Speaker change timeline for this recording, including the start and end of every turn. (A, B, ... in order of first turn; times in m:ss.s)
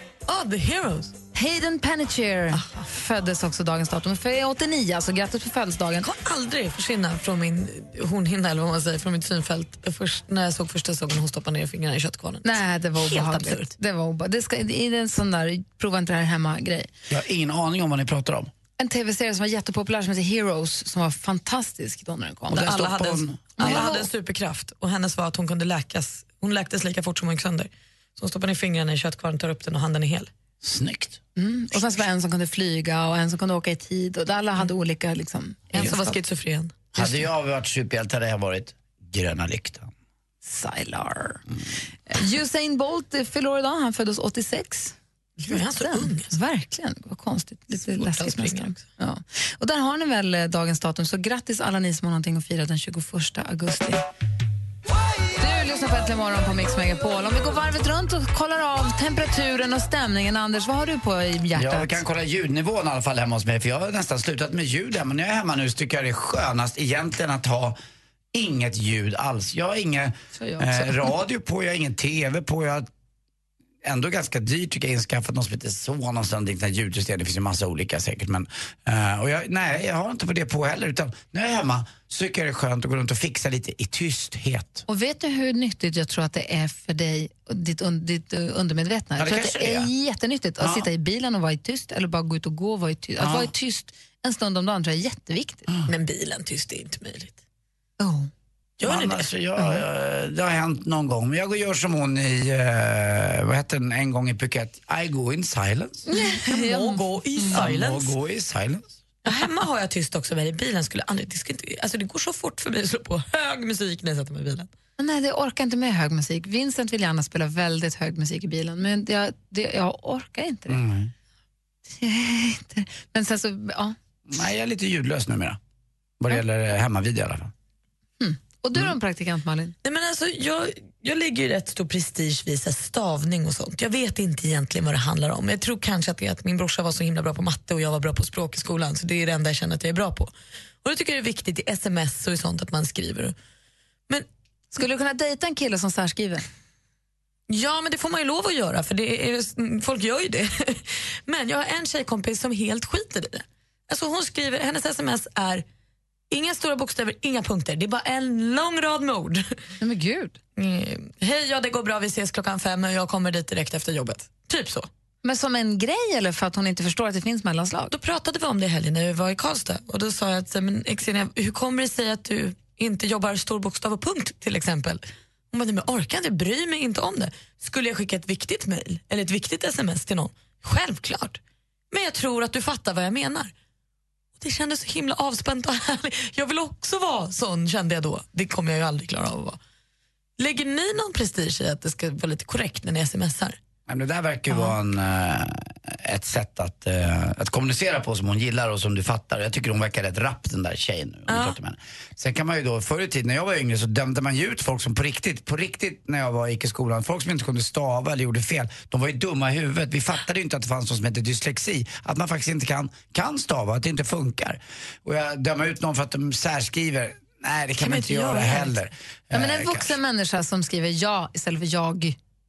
0:00.3-0:01.2 A
0:01.3-0:06.1 B
0:02.5-0:02.8 A
0:06.0-0:13.7 A
0:12.4-0:16.9 B
0:17.1-0:18.5 C
0:18.8-0:22.7 B
0:22.5-0:23.8 C
0:22.6-0:30.3 A
0:23.6-0:24.1 B
0:30.6-0:31.2 C
0:31.4-0:36.2 B
0:35.7-0:36.7 A
0:36.9-0:39.9 C
0:40.4-0:41.4 B
0:42.1-0:54.0 B
0:45.5-0:46.3 A
0:47.8-0:48.8 A
0:55.4-1:02.0 B
1:01.6-1:07.8 C
1:08.3-1:12.9 C
1:10.4-1:11.1 B
1:13.8-1:24.8 C
1:24.9-1:35.7 B
1:29.2-1:29.9 C
1:30.6-1:30.9 C
1:33.2-1:33.5 C
1:35.9-1:37.4 A
1:38.0-1:38.3 B
1:38.8-1:39.3 A
1:38.8-1:46.1 C
1:46.1-1:47.6 B
1:46.1-1:48.1 A
1:47.5-1:49.0 C
1:49.2-1:54.7 A
1:55.0-2:00.8 B
2:00.7-2:01.1 C
2:01.9-2:04.0 B
2:04.3-2:05.6 C
2:06.2-2:07.5 C
2:08.2-2:09.8 B
2:09.8-2:23.4 A
2:24.7-2:26.4 B
2:27.5-2:35.6 A
2:36.3-2:39.6 A
2:39.8-2:40.4 B
2:40.6-2:44.9 A
2:45.2-2:47.9 B
2:47.9-3:01.4 A
3:01.9-3:03.5 A
3:04.4-3:09.6 A
3:10.4-3:13.6 A
3:13.9-3:40.0 C
3:21.3-3:21.6 A
3:37.8-3:38.8 A
3:39.3-3:42.2 B